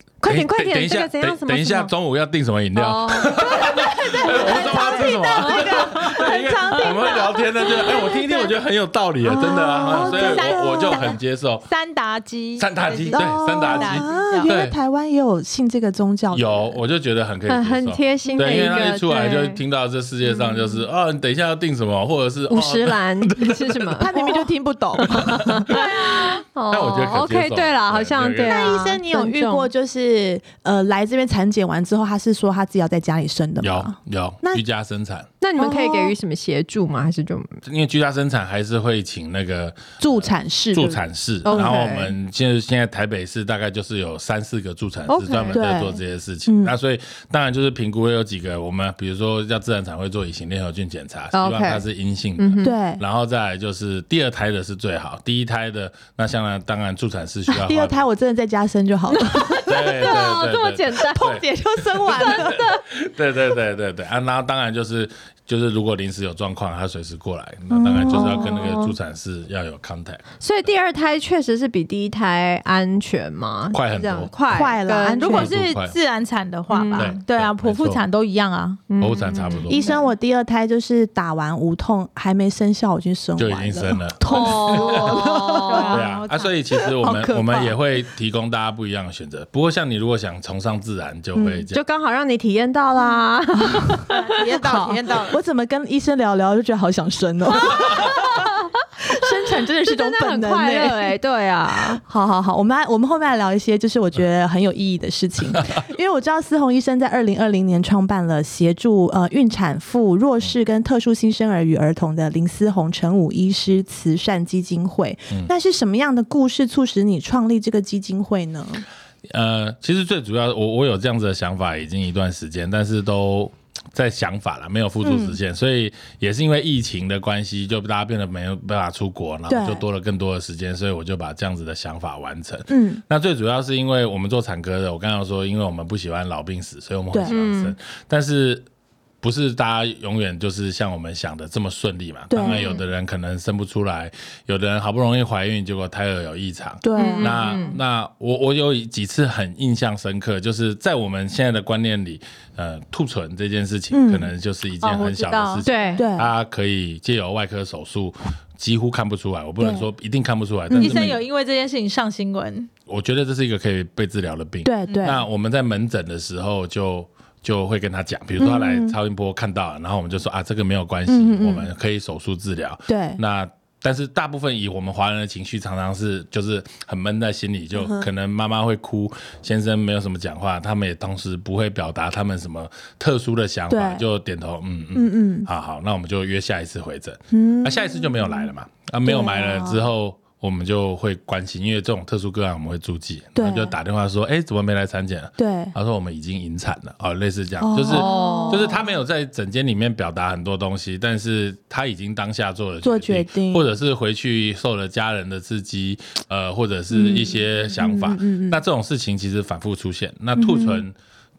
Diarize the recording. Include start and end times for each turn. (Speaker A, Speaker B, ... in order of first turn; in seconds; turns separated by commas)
Speaker A: 0.2-1.9, Speaker B: 0.2-11.7, Speaker A: 2.8-4.9, Speaker C: 3.8-8.5, Speaker D: 4.2-6.4, Speaker A: 5.4-5.9, Speaker D: 9.2-11.2, Speaker C: 9.9-14.5, Speaker B: 12.6-14.8, Speaker D: 13.1-16.8, Speaker B: 16.3-24.1, Speaker A: 17.5-19.6, Speaker A: 22.5-24.5, Speaker D: 24.0-25.7, Speaker B: 25.1-28.8, Speaker A: 25.1-29.7, Speaker D: 28.5-34.6, Speaker B: 33.6-35.3, Speaker A: 35.4-37.6, Speaker D: 35.6-36.1, Speaker B: 37.6-58.0, Speaker D: 40.0-41.8, Speaker A: 41.5-42.1, Speaker A: 45.1-45.6, Speaker D: 45.5-46.7, Speaker A: 51.3-51.8, Speaker A: 52.4-52.7, Speaker D: 52.6-53.0, Speaker D: 57.5-59.8, Speaker A: 59.1-61.4, Speaker B: 59.6-70.3, Speaker D: 61.1-62.6, Speaker A: 62.1-62.8, Speaker D: 67.7-68.7, Speaker A: 68.1-69.0, Speaker A: 70.4-75.4, Speaker B: 73.7-74.3, Speaker D: 74.5-75.5, Speaker C: 75.2-78.9, Speaker B: 75.3-76.0, Speaker A: 76.7-77.2, Speaker B: 77.0-78.0, Speaker A: 78.9-79.7, Speaker B: 79.0-79.9, Speaker D: 79.7-85.9, Speaker C: 79.7-80.1, Speaker B: 83.4-85.2, Speaker A: 84.2-86.0, Speaker C: 84.8-87.1, Speaker B: 85.9-91.8, Speaker D: 87.0-87.7, Speaker D: 91.3-91.7, Speaker A: 91.7-94.2, Speaker D: 93.7-94.0, Speaker C: 94.1-95.4, Speaker D: 94.6-98.5, Speaker A: 97.7-98.6, Speaker D: 99.0-101.2, Speaker A: 99.8-102.0, Speaker D: 102.0-118.8, Speaker B: 119.3-138.7, Speaker D: 125.0-125.4, Speaker D: 129.5-129.8, Speaker D: 132.7-133.0, Speaker A: 137.3-137.8, Speaker B: 139.2-161.2, Speaker D: 142.3-142.7, Speaker A: 142.4-142.8, Speaker D: 146.8-147.4, Speaker A: 147.0-147.8, Speaker D: 153.9-154.3, Speaker C: 154.9-155.8, Speaker A: 155.0-156.0, Speaker D: 156.0-156.3, Speaker D: 159.6-159.9, Speaker D: 160.7-161.1, Speaker C: 160.7-162.7, Speaker B: 162.9-210.9, Speaker D: 164.6-165.2, Speaker C: 164.9-165.1, Speaker D: 168.4-169.0, Speaker D: 171.1-171.7, Speaker D: 172.9-173.2, Speaker D: 177.8-178.1, Speaker D: 183.7-184.1, Speaker D: 184.9-185.5, Speaker D: 187.3-188.5, Speaker D: 189.0-189.8, Speaker D: 193.4-193.8, Speaker D: 195.4-195.7, Speaker D: 197.6-198.8, Speaker A: 197.9-198.8, Speaker D: 202.8-203.7, Speaker D: 206.9-208.6, Speaker D: 210.3-210.8